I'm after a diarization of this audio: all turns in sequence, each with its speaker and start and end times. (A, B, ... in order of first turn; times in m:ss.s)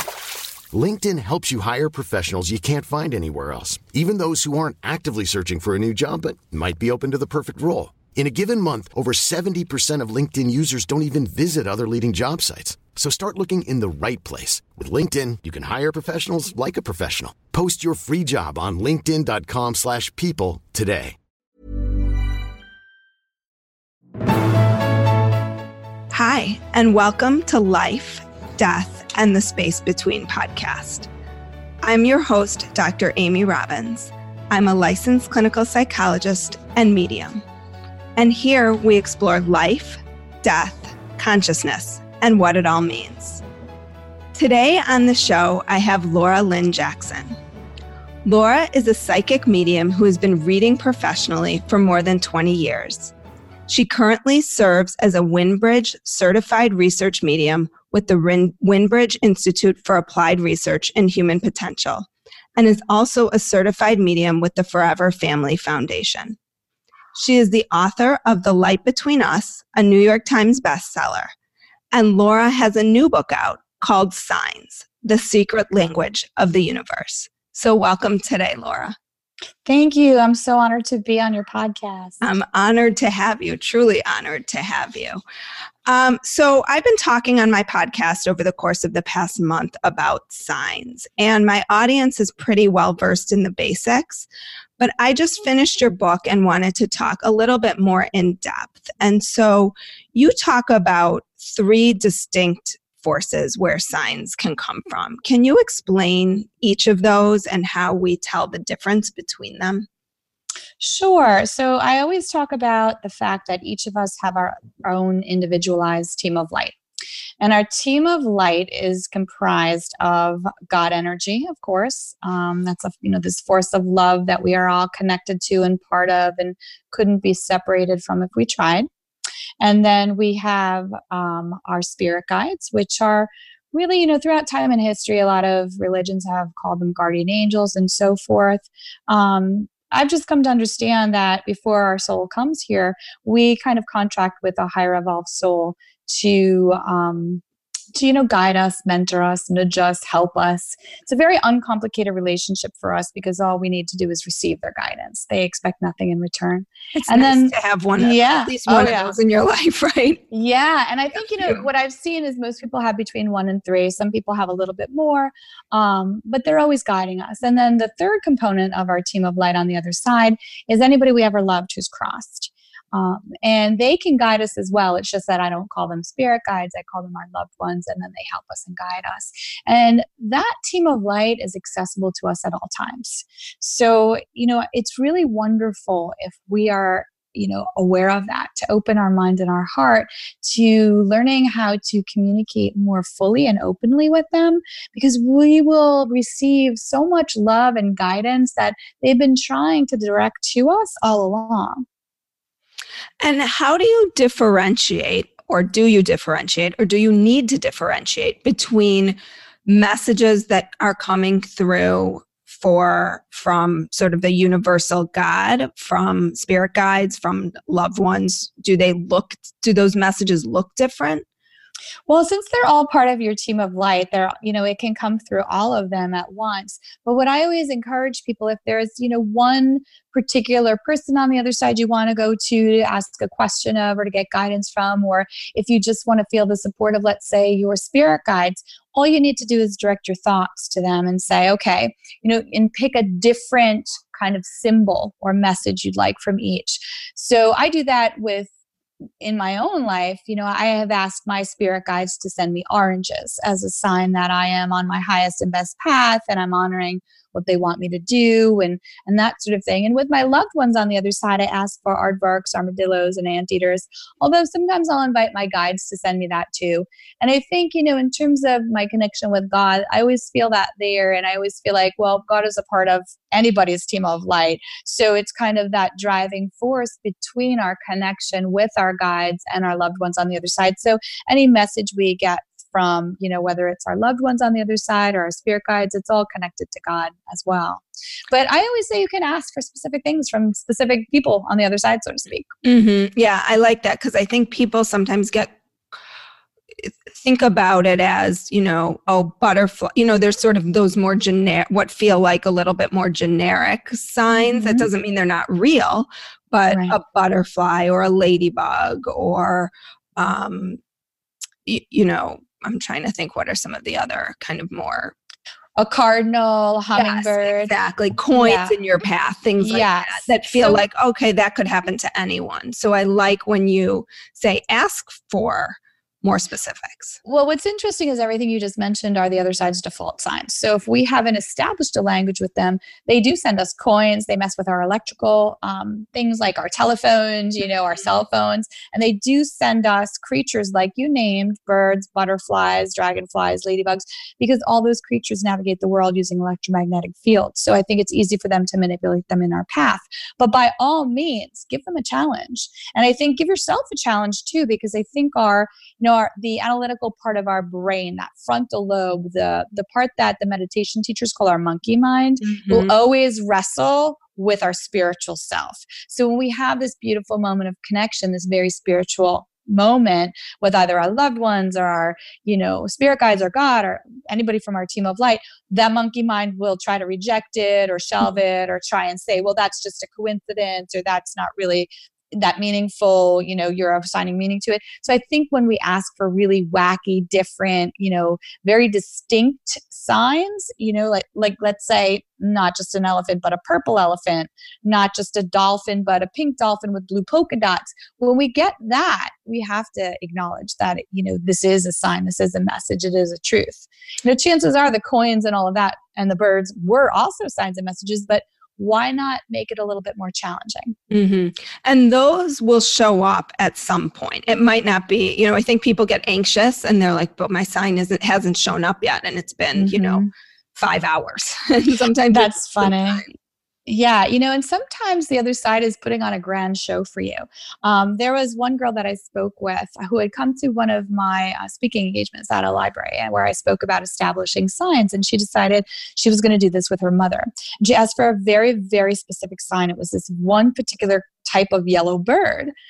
0:00.7-0:21.2 A
0:26.1-0:31.1 B
0:31.8-0:37.4 B
0:38.2-0:43.4 B
0:44.3-0:47.4 B
0:48.2-0:53.1 B
0:53.7-1:06.4 B
1:07.1-1:11.3 B
1:11.9-1:19.0 B
1:19.6-1:22.2 C
1:22.2-1:25.2 B
1:25.8-1:34.3 B
1:34.8-1:49.8 B
1:50.8-1:56.8 C
1:57.4-2:08.9 C
2:09.6-2:27.4 C
2:27.9-2:39.2 C
2:37.0-2:40.2 B
2:40.3-3:21.8 C
3:23.2-3:41.2 B
3:42.1-4:08.5 C
4:09.2-4:52.5 C
4:52.6-4:55.5 B
4:56.8-5:10.8 B
5:04.3-5:04.9 C
5:06.7-5:07.0 C
5:11.6-5:15.1 B
5:15.8-5:17.7 C
5:17.0-5:27.2 B
5:18.3-5:18.8 C
5:19.6-5:20.8 C
5:27.2-6:51.0 C
6:02.4-6:02.9 B
6:51.1-7:00.2 B
6:59.8-7:00.3 C
7:00.8-7:03.3 B
7:02.3-7:03.2 C
7:03.9-7:22.7 C